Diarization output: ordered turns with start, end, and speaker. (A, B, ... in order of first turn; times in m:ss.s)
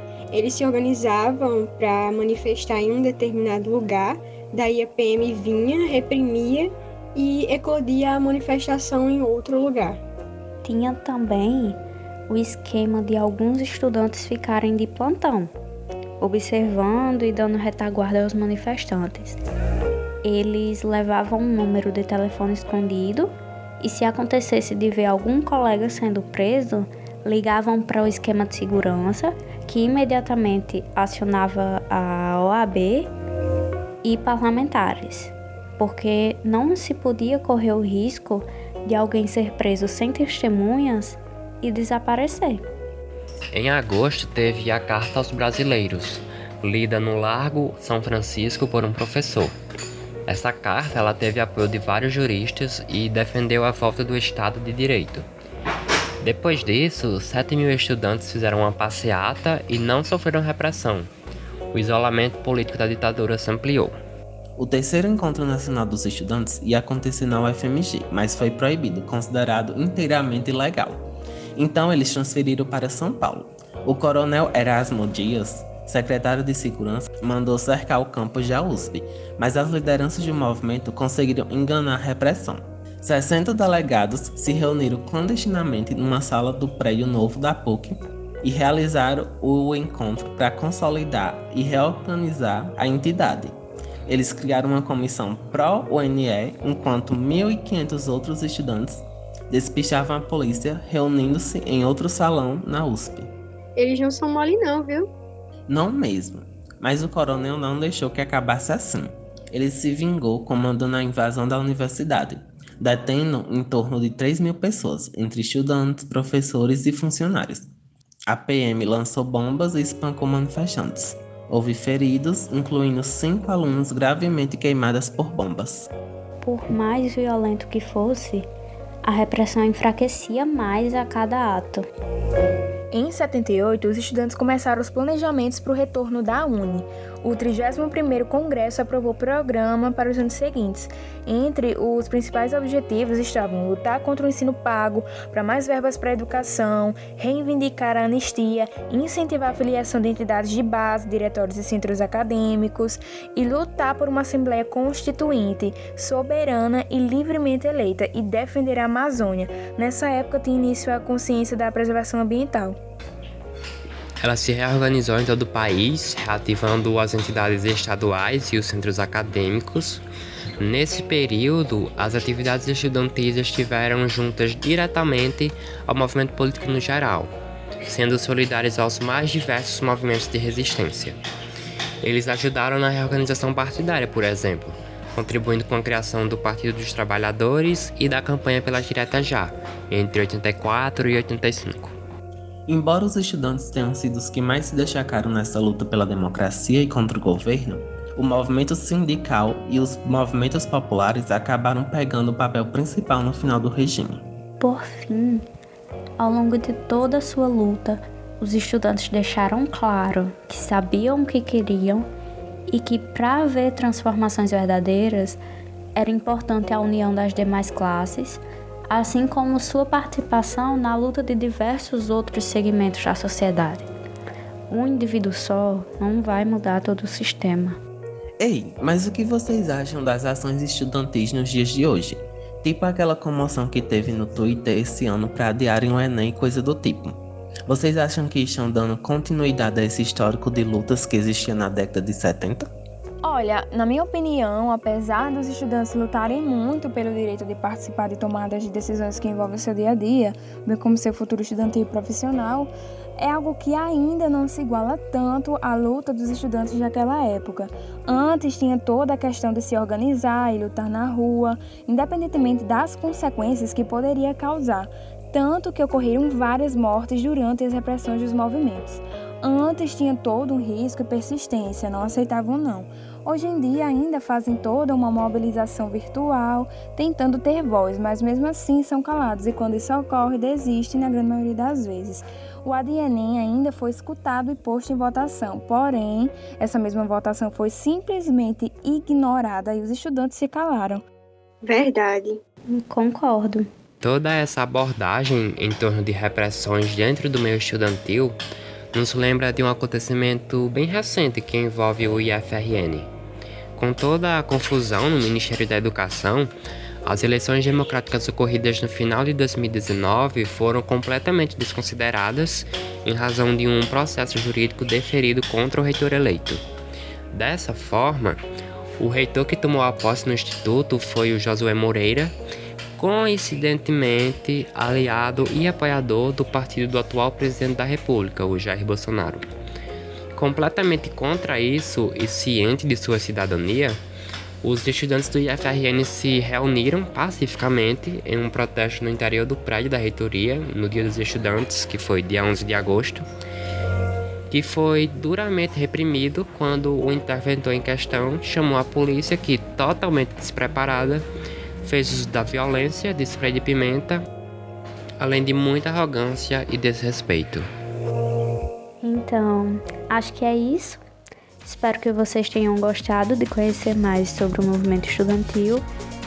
0:00.3-0:10.0 A
0:10.6-0:15.5 B
0:16.2-0:19.4 B
0:20.2-0:33.1 B
0:34.0-0:42.6 B
0:43.5-0:49.5 C
0:50.3-0:55.2 C
0:56.2-1:01.1 C
1:01.7-1:03.9 C
1:04.6-1:43.3 D
1:43.8-1:45.1 A
1:45.7-1:57.7 D
1:58.3-2:05.9 D
2:06.4-2:08.5 B
2:09.0-2:11.8 B
2:12.9-2:42.8 E
2:44.2-2:50.0 C
2:50.6-2:57.3 C
2:57.8-3:01.2 C
3:02.0-3:11.9 C
3:12.7-3:24.3 D
3:24.6-3:25.4 B
3:26.2-3:32.0 B
3:32.7-3:35.4 B
3:36.0-3:43.9 B
3:44.7-3:47.8 B
3:48.4-4:02.7 D
4:03.2-4:51.0 E
4:51.6-4:52.4 A
4:52.7-4:53.7 B
4:54.0-4:58.4 C
4:58.9-5:03.1 C
5:03.8-5:06.5 C
5:07.0-5:16.6 C
5:17.3-5:18.4 C
5:19.0-5:22.3 C
5:23.0-5:29.4 C
5:30.3-5:34.0 C
5:34.6-5:43.2 C
5:44.5-5:51.2 C
5:51.8-5:54.2 C
5:55.2-5:57.7 C
5:59.0-6:01.0 B
6:01.6-6:05.8 B